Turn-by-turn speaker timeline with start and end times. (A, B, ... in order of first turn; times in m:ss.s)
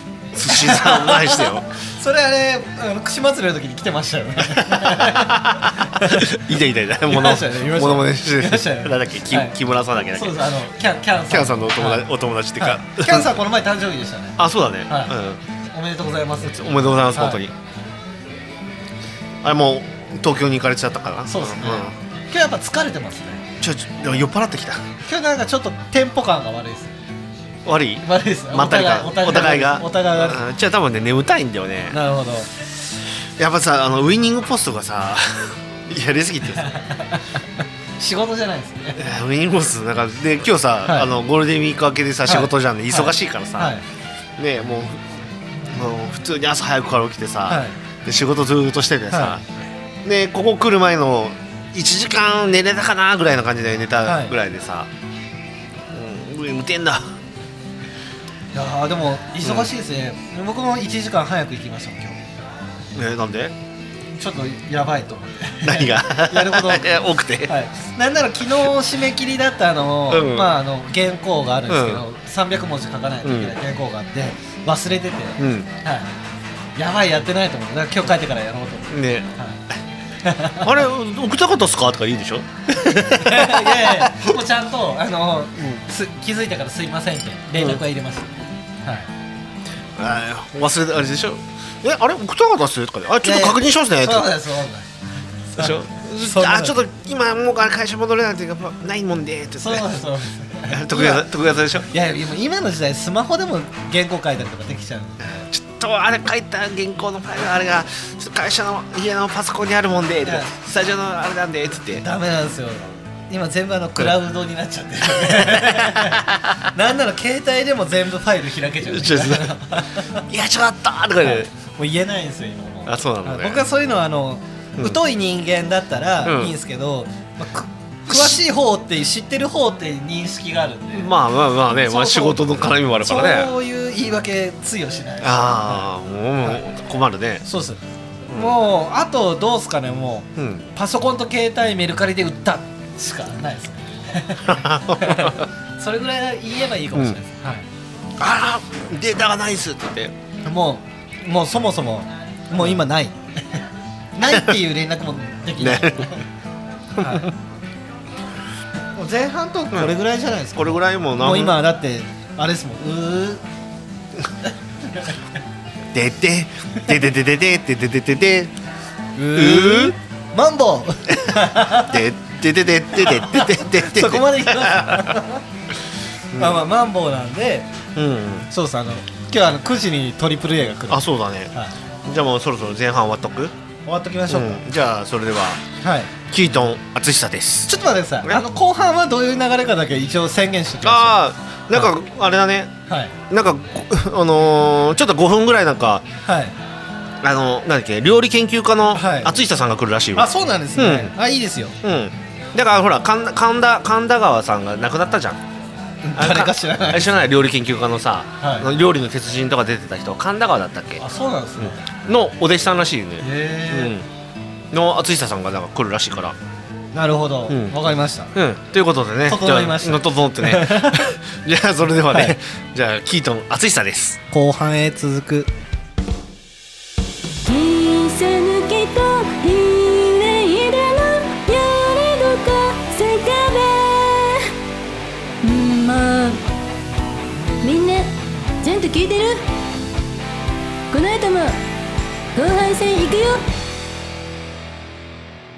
0:00.3-0:01.7 A
0:00.4-0:06.3 B
0:04.6-0:10.5 A
0:07.1-0:09.5 B
0:10.1-0:15.1 B
0:11.3-0:13.3 A
0:14.4-0:15.4 A
0:15.7-0:17.4 B
0:16.4-0:17.5 A
0:19.4-0:21.9 A
0:21.3-0:23.4 B
0:23.6-0:24.8 A
0:25.0-0:26.9 B
0:27.6-0:32.0 A
0:28.0-0:30.4 B
0:31.9-0:32.5 B
0:33.4-0:36.7 A
0:36.6-0:37.4 B
0:38.0-0:39.0 B
0:39.0-0:43.8 A
0:40.8-0:41.1 B
0:42.2-0:43.8 B
0:44.4-0:45.1 A
0:45.7-0:49.4 A
0:47.5-0:47.8 B
0:49.1-0:49.4 B
0:50.0-0:54.9 A
0:54.0-0:54.3 B
0:55.9-0:57.1 A
0:58.5-1:02.2 B
0:59.4-0:59.7 A
1:02.9-1:03.5 A
1:04.2-1:16.1 B
1:05.6-1:07.5 A
1:10.1-1:10.6 A
1:11.7-1:12.0 A
1:13.2-1:13.5 A
1:15.4-1:15.7 A
1:16.8-1:19.6 B
1:18.9-1:19.3 A
1:20.2-1:20.8 B
1:20.6-1:24.3 A
1:22.8-1:29.1 B
1:30.0-1:34.3 A
1:33.2-1:34.9 B
1:35.5-1:36.8 B
1:35.6-1:40.0 A
1:39.6-1:41.3 B
1:40.7-1:41.9 A
1:41.8-1:45.5 B
1:45.5-1:52.0 A
1:50.2-1:50.5 B
1:52.0-2:00.2 B
1:55.1-1:56.5 A
1:58.8-1:59.6 A
2:00.1-2:01.5 A
2:01.2-2:11.1 B
2:02.8-2:03.6 A
2:06.2-2:06.5 A
2:08.1-2:08.4 A
2:10.9-2:13.5 A
2:11.8-2:15.9 B
2:15.2-2:17.4 A
2:17.4-2:27.6 B
2:20.4-2:20.6 A
2:24.5-2:25.4 A
2:28.2-2:30.1 A
2:30.4-2:33.2 B
2:34.2-2:36.2 B
2:35.6-2:36.1 A
2:37.0-2:37.3 B
2:37.0-2:37.3 A
2:39.0-2:43.4 B
2:40.6-2:41.6 A
2:45.9-2:48.5 A
2:49.2-2:52.0 B
2:49.3-2:49.9 A
2:51.8-2:55.2 A
2:53.0-2:55.4 B
2:56.3-2:56.6 A
2:56.3-2:57.7 B
2:57.9-2:58.5 A
2:58.5-3:01.7 B
3:00.9-3:01.5 A
3:02.0-3:03.5 A
3:03.8-3:04.6 B
3:04.3-3:05.6 A
3:05.8-3:06.1 B
3:06.3-3:08.4 A
3:07.7-3:11.2 B
3:10.8-3:12.7 A
3:12.9-3:13.1 B
3:13.3-3:16.0 A
3:16.2-3:16.6 B
3:17.2-3:21.1 A
3:18.9-3:19.4 B
3:20.1-3:21.8 B
3:21.8-3:25.4 A
3:26.0-3:27.3 B
3:26.2-3:31.0 A
3:28.4-3:28.7 B
3:31.0-3:31.8 B
3:31.6-3:34.0 A
3:33.2-3:33.9 B
3:34.7-3:36.4 A
3:36.9-3:38.3 B
3:37.5-3:37.8 A
3:38.3-3:44.2 A
3:39.2-3:41.1 B
3:42.1-3:42.3 B
3:44.3-3:45.5 B
3:47.4-3:54.5 C
3:55.4-3:56.4 C
3:57.6-3:59.4 C
4:00.9-4:01.6 C
4:02.3-4:03.4 C